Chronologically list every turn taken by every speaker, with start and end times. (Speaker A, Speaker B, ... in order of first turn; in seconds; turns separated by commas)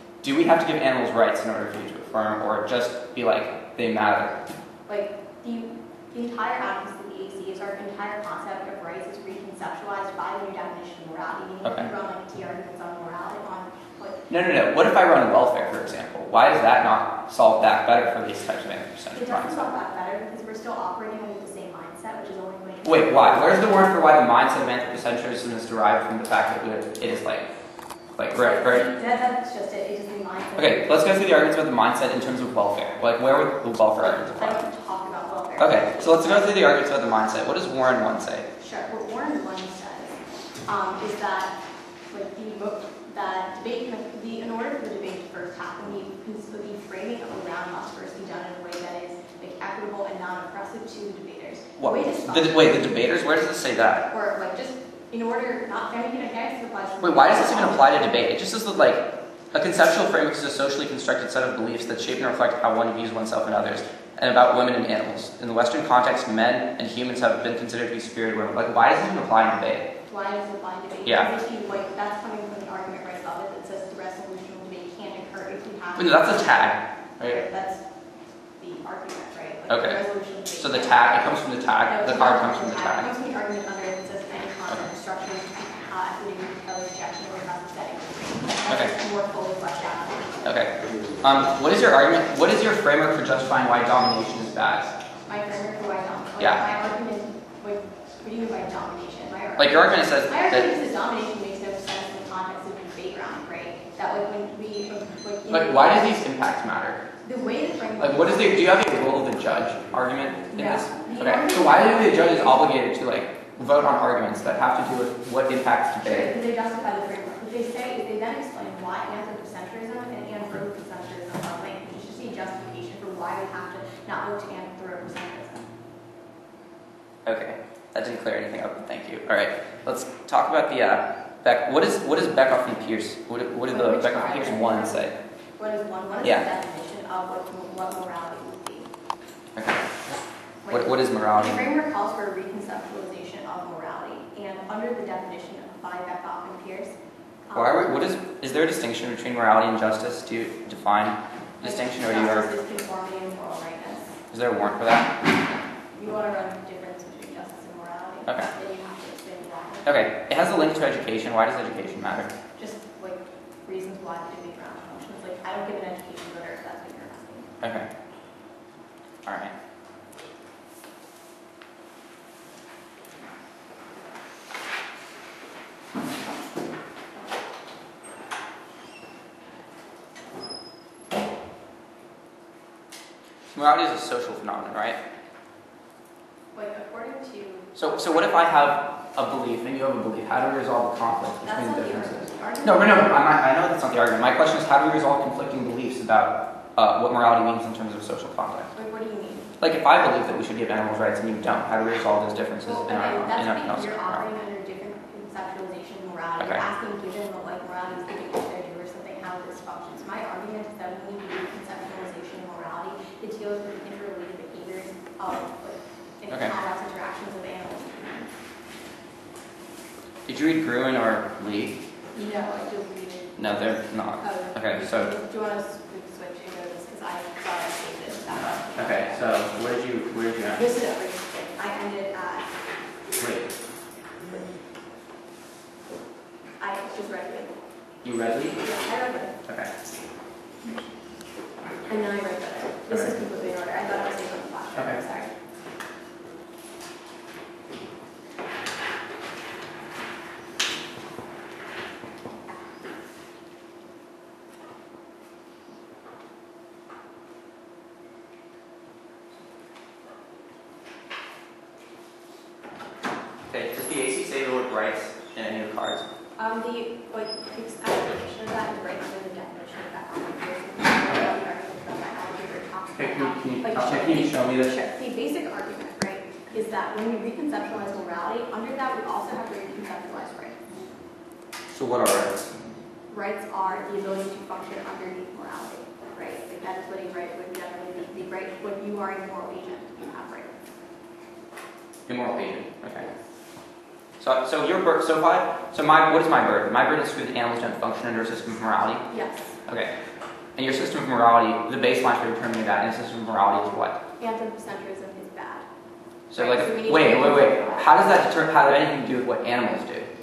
Speaker A: 0.2-4.4, Speaker B: 4.9-14.2, Speaker A: 11.6-11.9, Speaker A: 14.3-19.7, Speaker B: 19.1-23.9, Speaker A: 22.8-27.5, Speaker A: 28.1-28.9, Speaker B: 28.3-31.3, Speaker A: 30.6-34.6, Speaker B: 34.0-36.5, Speaker A: 35.6-38.5, Speaker B: 38.6-41.5, Speaker B: 42.1-52.8, Speaker A: 51.8-54.0, Speaker B: 54.1-58.2, Speaker A: 57.0-69.9, Speaker B: 70.1-77.8, Speaker A: 71.0-71.3, Speaker A: 76.0-77.4, Speaker B: 78.6-90.4, Speaker A: 79.7-83.1, Speaker A: 88.7-88.9, Speaker A: 90.4-94.9, Speaker B: 95.2-106.2, Speaker A: 96.4-96.6, Speaker A: 99.6-100.7, Speaker A: 105.5-107.0, Speaker B: 107.2-108.8, Speaker A: 108.0-116.3, Speaker B: 110.5-112.5, Speaker B: 116.0-125.7, Speaker A: 127.2-135.1, Speaker B: 133.7-138.9, Speaker A: 139.5-139.9, Speaker B: 140.6-148.1, Speaker A: 140.7-141.7, Speaker A: 147.5-152.5, Speaker B: 151.6-154.2, Speaker A: 154.3-155.1, Speaker B: 155.9-159.9, Speaker A: 159.8-162.3, Speaker B: 162.6-167.5, Speaker A: 167.6-167.9, Speaker A: 169.2-169.5, Speaker A: 183.5-185.0, Speaker B: 186.5-187.8, Speaker A: 187.7-198.7, Speaker B: 191.4-193.3, Speaker B: 198.7-199.5, Speaker A: 199.6-204.2, Speaker B: 202.6-218.3, Speaker A: 206.4-206.6, Speaker A: 216.3-216.5, Speaker A: 220.2-221.8, Speaker B: 222.1-223.5, Speaker A: 223.4-225.1, Speaker B: 224.2-229.2, Speaker A: 228.3-230.7, Speaker B: 230.5-232.5, Speaker A: 233.2-233.5, Speaker B: 236.6-237.5, Speaker A: 238.0-238.6, Speaker B: 238.6-239.3, Speaker A: 239.4-239.7, Speaker B: 241.9-245.3, Speaker A: 242.9-243.1, Speaker A: 244.7-245.0, Speaker A: 263.5-266.1, Speaker B: 266.4-280.5, Speaker A: 271.1-271.3, Speaker A: 272.9-274.7, Speaker A: 281.7-282.5, Speaker B: 283.1-290.5, Speaker A: 292.1-293.1, Speaker A: 294.2-299.1, Speaker B: 299.1-299.6, Speaker A: 299.6-299.9, Speaker A: 300.6-304.0, Speaker B: 304.2-305.6, Speaker A: 306.3-310.1, Speaker B: 306.3-308.1